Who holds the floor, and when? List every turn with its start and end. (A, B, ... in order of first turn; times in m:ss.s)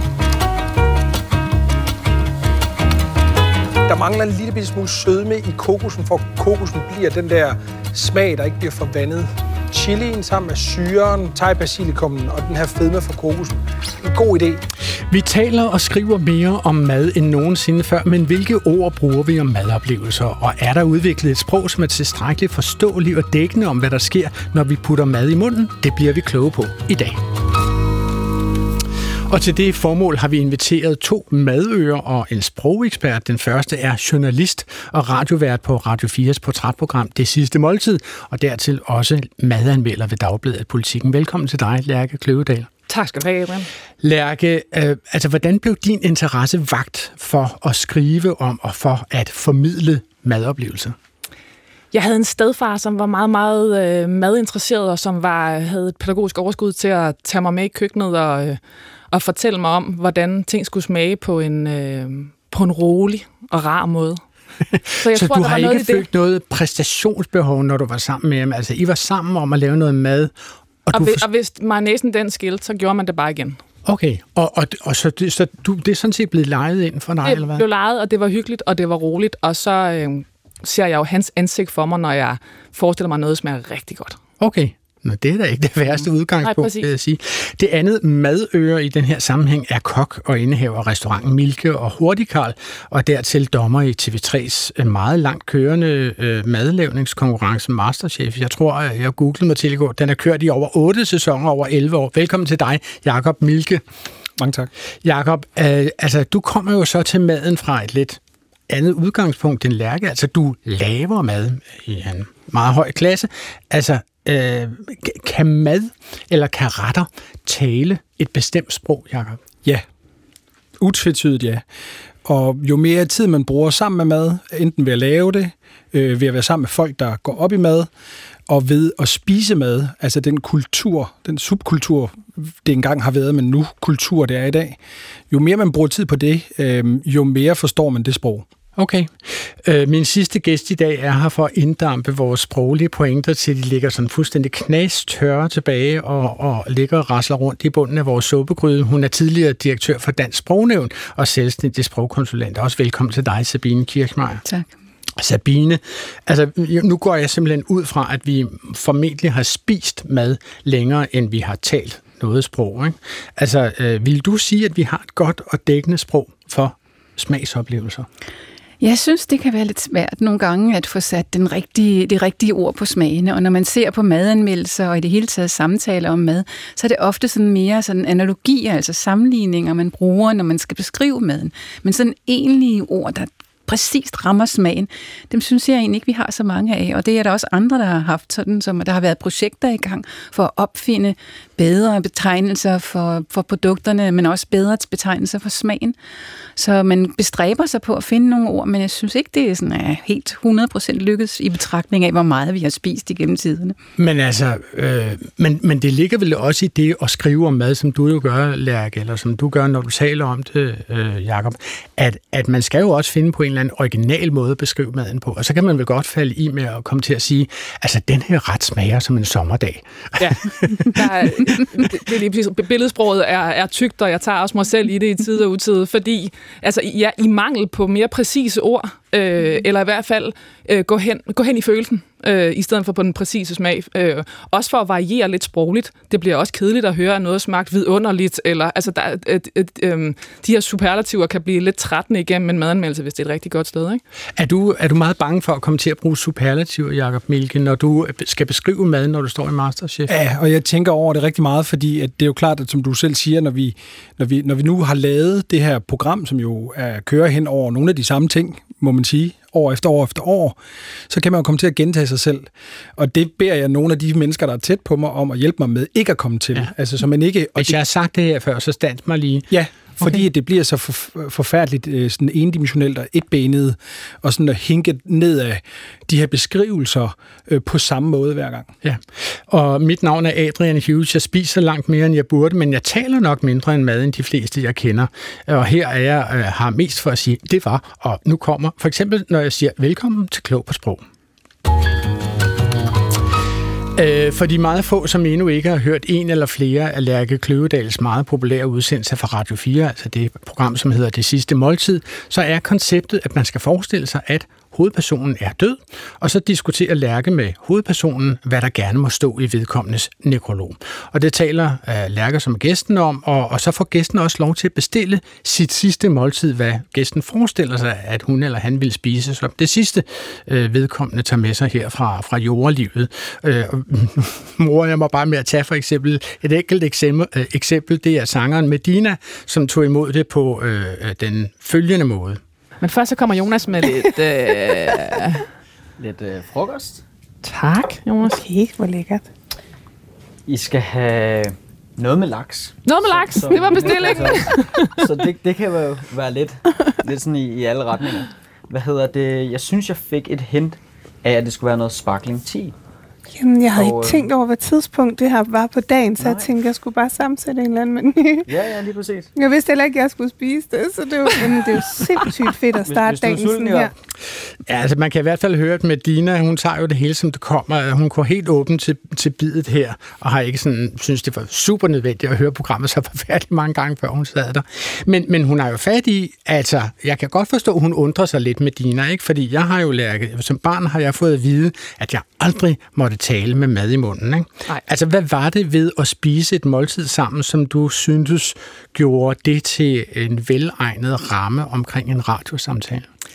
0:03.9-0:14.6 A
0:15.1-0:27.2 B
0:29.3-0:42.7 B
0:42.9-0:43.7 C
0:44.0-0:51.0 B
0:51.9-0:58.6 C
0:59.1-1:04.2 C
1:04.8-1:10.3 B
1:05.0-1:06.0 C
1:10.9-1:11.2 B
1:10.9-1:13.6 C
1:13.8-1:17.6 B
1:17.2-1:24.2 C
1:24.4-1:43.8 B
1:26.4-1:26.9 C
1:44.4-1:44.7 A
1:45.0-1:59.4 B
2:00.8-2:01.6 A
2:02.2-2:07.9 A
2:08.5-2:14.8 A
2:15.3-2:18.5 A
2:18.8-2:34.4 B
2:35.2-2:48.1 B
2:48.8-3:16.0 D
3:16.6-3:23.8 D
3:24.0-3:41.6 B
3:40.2-4:04.0 C
4:04.4-4:10.1 B
4:10.1-4:20.6 A
4:21.1-4:27.8 A
4:27.6-4:29.5 B
4:29.5-4:38.7 A
4:38.8-4:51.0 B
4:54.0-5:32.4 B
5:32.8-5:35.4 C
5:36.0-5:37.0 E
5:37.5-5:38.4 C
5:37.6-5:39.3 F
5:40.5-5:52.8 E
5:42.8-5:44.9 C
5:53.3-5:58.5 F
5:53.7-5:54.3 E
5:56.2-5:56.5 E
5:58.4-5:59.3 E
5:59.4-6:03.9 F
6:02.8-6:03.9 E
6:04.7-6:33.1 B